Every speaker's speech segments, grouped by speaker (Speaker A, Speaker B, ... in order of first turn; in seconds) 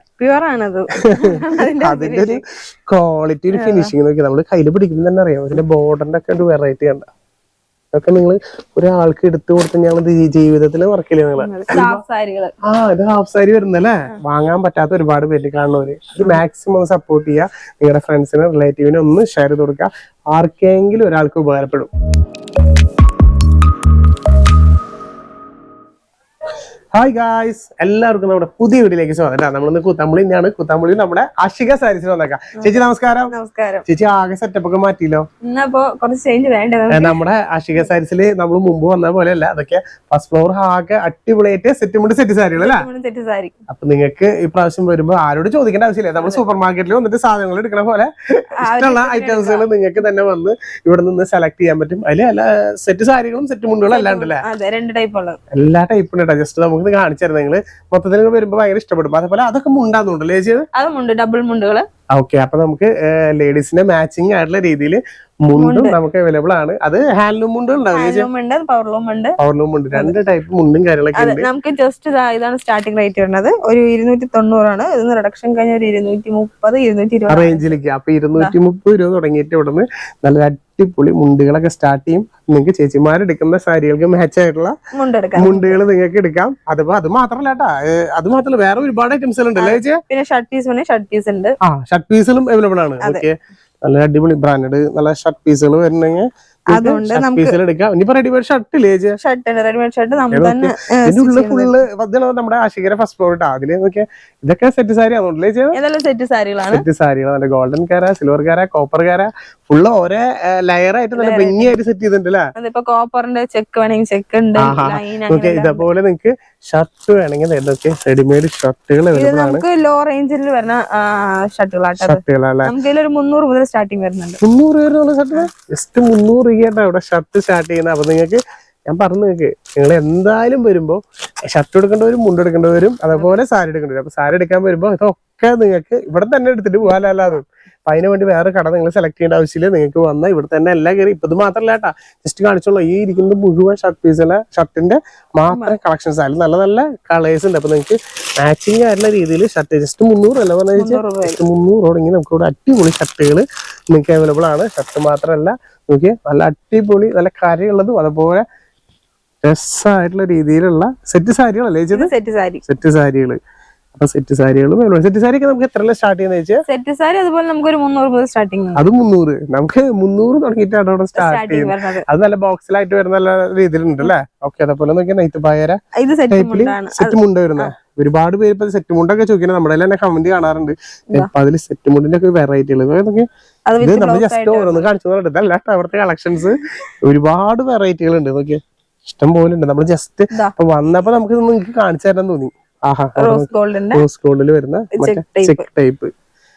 Speaker A: 0.2-2.4, 3.5-3.9, 11.4-12.5, 33.3-33.9, 35.4-37.2, 42.6-43.6, 48.6-49.6, 53.9-55.4, 60.8-61.9, 65.5-66.0, 67.9-69.4, 71.2-77.6, 84.9-85.8, 89.6-91.6, 96.7-97.6, 99.2-101.8, 105.7-106.8, 111.2-111.8, 112.5-115.9, 119.1-124.4, 133.1-133.4, 145.5-145.8, 150.8-151.4, 161.9-162.6, 166.7-168.8, 171.2-172.1, 176.0-177.7, 183.7-184.9, 193.2-194.0, 194.9-195.7
Speaker B: 1.0-7.1, 7.9-12.0, 12.6-21.9, 26.9-33.3, 33.9-35.2, 36.9-42.9, 43.7-54.4, 55.5-60.7, 62.1-68.3, 69.4-71.5, 77.3-84.8, 85.4-90.0, 91.7-99.2, 100.3-105.8, 106.7-112.5, 114.6-119.6, 122.0-122.7, 124.4-158.4, 159.4-162.1, 162.7-163.4, 164.0-166.6, 168.8-175.8, 176.3-183.3, 183.8-196.1